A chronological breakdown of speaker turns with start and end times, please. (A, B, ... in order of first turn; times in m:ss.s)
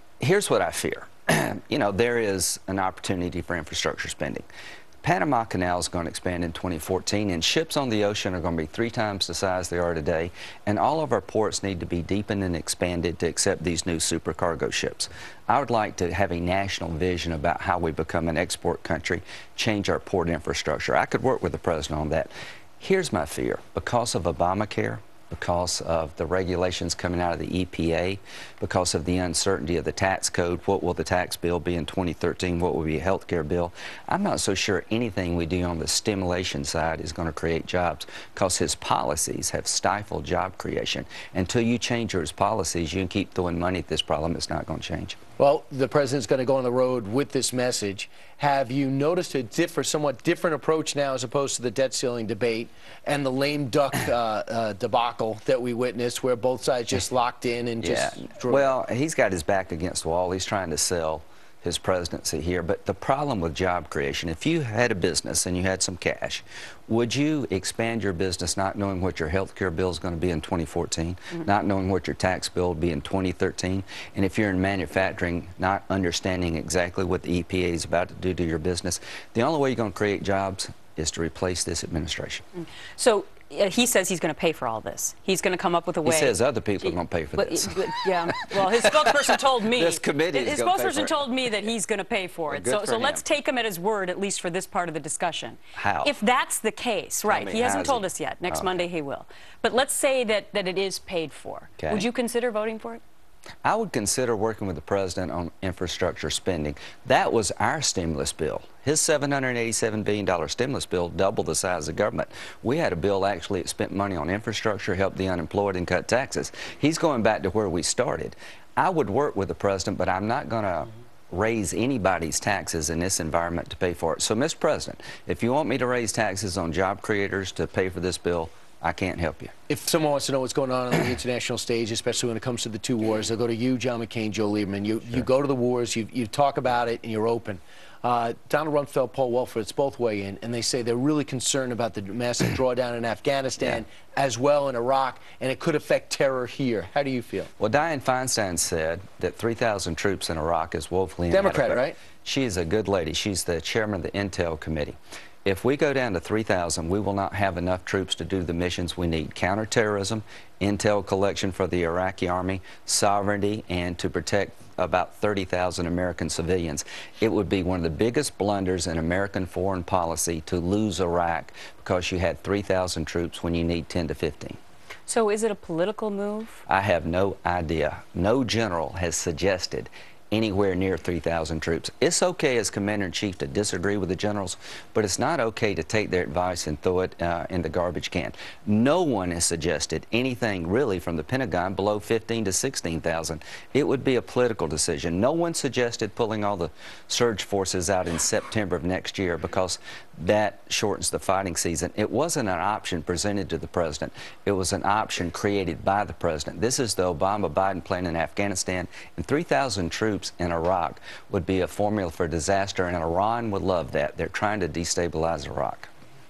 0:00.2-0:04.4 A
0:05.0-0:45.2 A
0:45.4-0:58.7 B
0:57.8-1:22.4 A
1:22.6-1:43.0 C
1:26.0-1:31.5 A
1:32.5-1:33.2 A
1:35.7-1:36.1 A
1:37.3-1:38.8 A
1:41.8-1:42.0 A
1:43.6-2:09.5 A
2:09.7-2:27.5 B
2:27.6-2:54.6 A
2:31.3-2:32.0 B
2:55.1-2:56.6 C
2:56.7-3:35.9 A